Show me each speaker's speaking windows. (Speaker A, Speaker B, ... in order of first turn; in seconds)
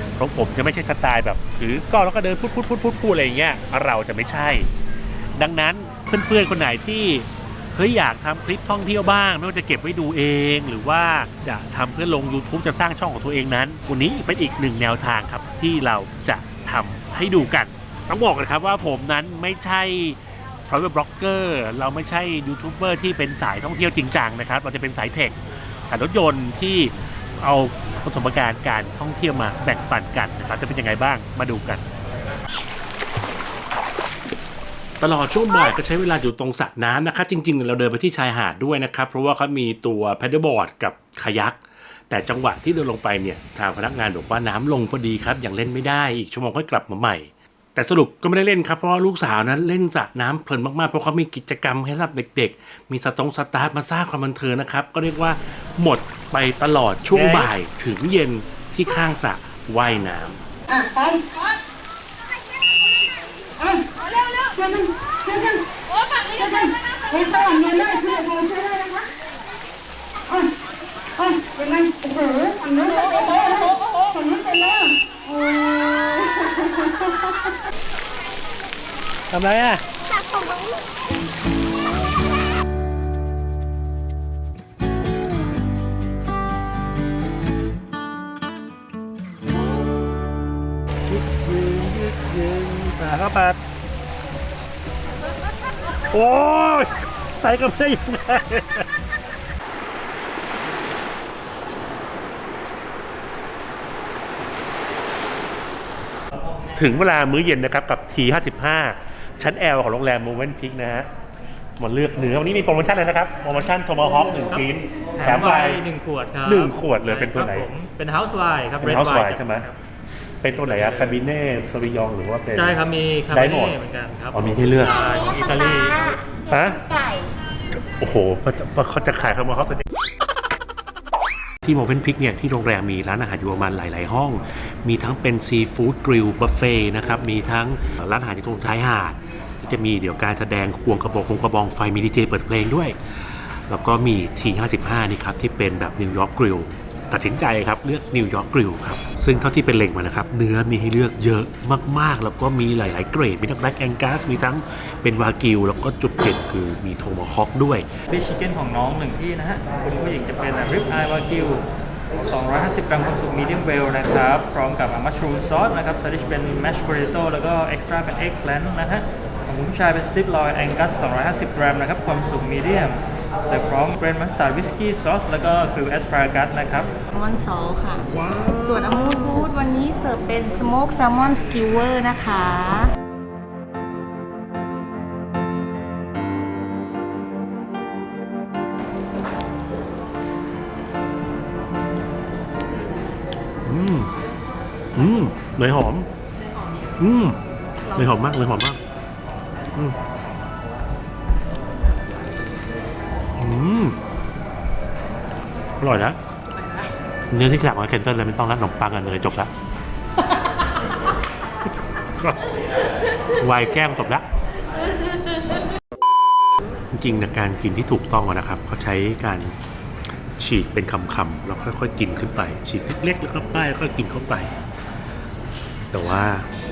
Speaker A: 0.2-4.7, 5.4-31.9, 35.0-60.4, 79.3-79.8, 91.1-93.6, 96.1-98.9, 106.8-111.1, 111.8-115.8, 116.4-117.7, 118.8-119.7, 120.4-122.8, 123.3-123.8, 124.3-125.0, 126.5-126.8, 128.0-129.9, 131.6-157.9, 178.2-178.6, 193.7-194.1, 194.9-196.1, 197.0-197.4, 197.9-198.8, 203.4-204.0, 205.8-206.2, 207.3-209.5, 212.2-212.5, 213.4-214.3, 216.9-219.6, 220.4-224.5, 225.9-226.5
Speaker B: 64.4-65.6, 66.3-68.9, 71.4-74.8, 80.0-80.8, 124.8-127.3
Speaker C: 115.2-119.8, 120.5-121.2, 122.5-126.1, 158.1-161.7, 162.2-176.9
Speaker D: 177.1-182.9